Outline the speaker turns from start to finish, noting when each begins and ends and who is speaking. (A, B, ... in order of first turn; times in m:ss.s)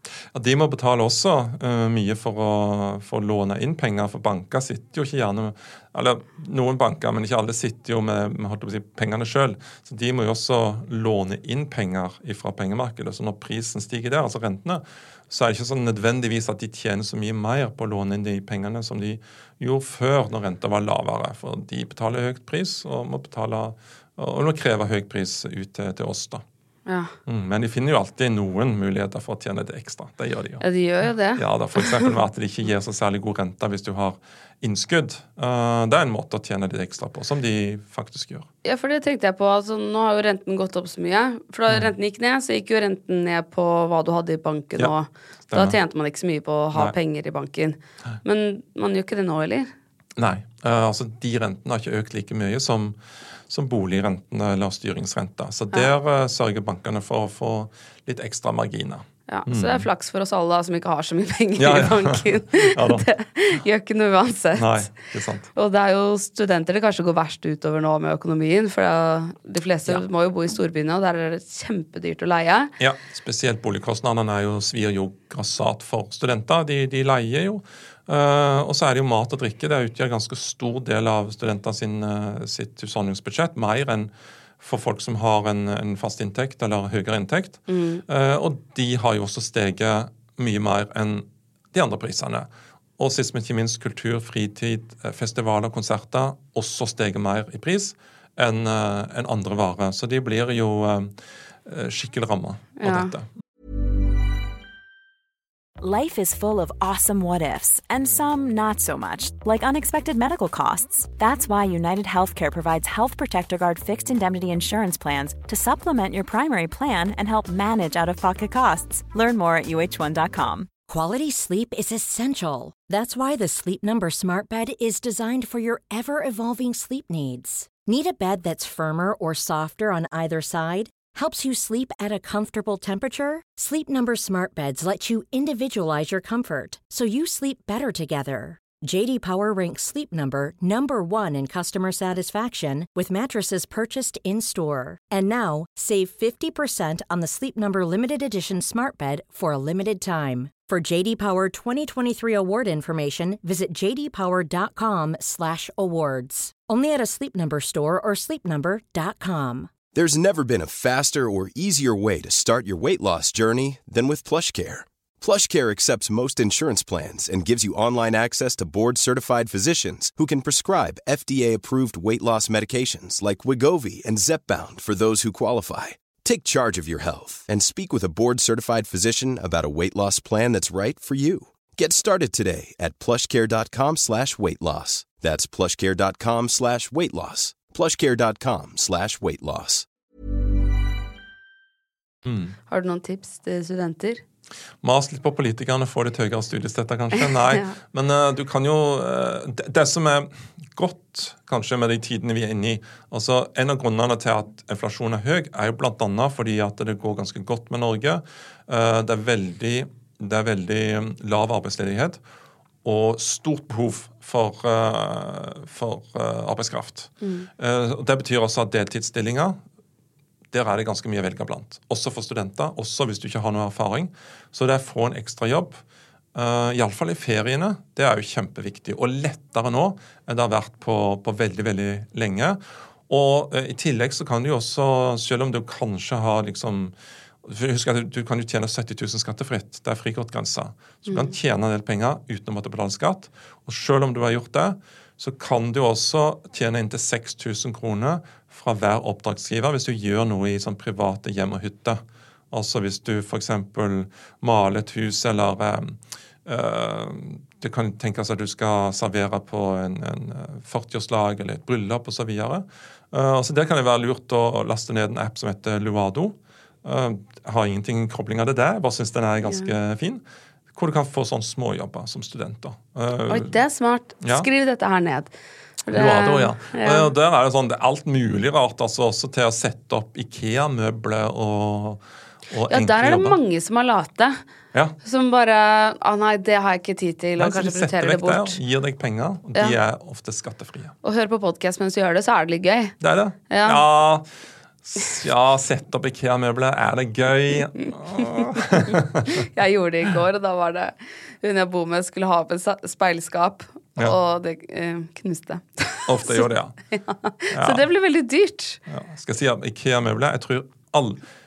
0:00.3-0:26.4 A
0:26.9-0:27.1 B
0:27.3-0:30.6 A
0:30.6-0:32.1 B
0:31.3-0:38.5 A
0:38.6-0:49.7 B
0:45.5-0:45.8 A
0:50.2-0:59.9 A
0:59.3-1:04.9 B
1:01.6-1:03.1 A
1:04.6-1:05.5 A
1:05.5-1:12.7 B
1:12.8-1:43.3 A
1:27.7-1:28.0 B
1:42.8-1:43.1 B
1:45.8-2:00.7 C
2:00.9-2:39.7 D
2:39.9-3:09.9 E
3:12.2-3:12.5 A
3:12.7-3:14.2 B
3:14.8-3:32.2 A
3:17.2-3:17.7 B
3:32.8-3:39.6 A
3:37.2-3:37.5 B
3:40.5-3:45.8 A
3:46.3-4:33.6 A
4:01.1-4:01.3 B
4:33.3-4:35.3 B
4:34.2-4:34.5 A
4:35.8-4:37.1 B
4:35.9-4:43.4 A
4:42.7-4:44.4 B
4:45.0-4:48.6 B
4:47.4-4:50.9 A
4:51.0-4:53.0 B
4:53.0-4:54.3 A
4:53.5-4:53.8 B
4:54.8-4:59.4 A
4:57.8-5:08.8 B
5:06.1-5:06.8 A
5:07.5-5:07.8 A
5:08.9-5:11.2 A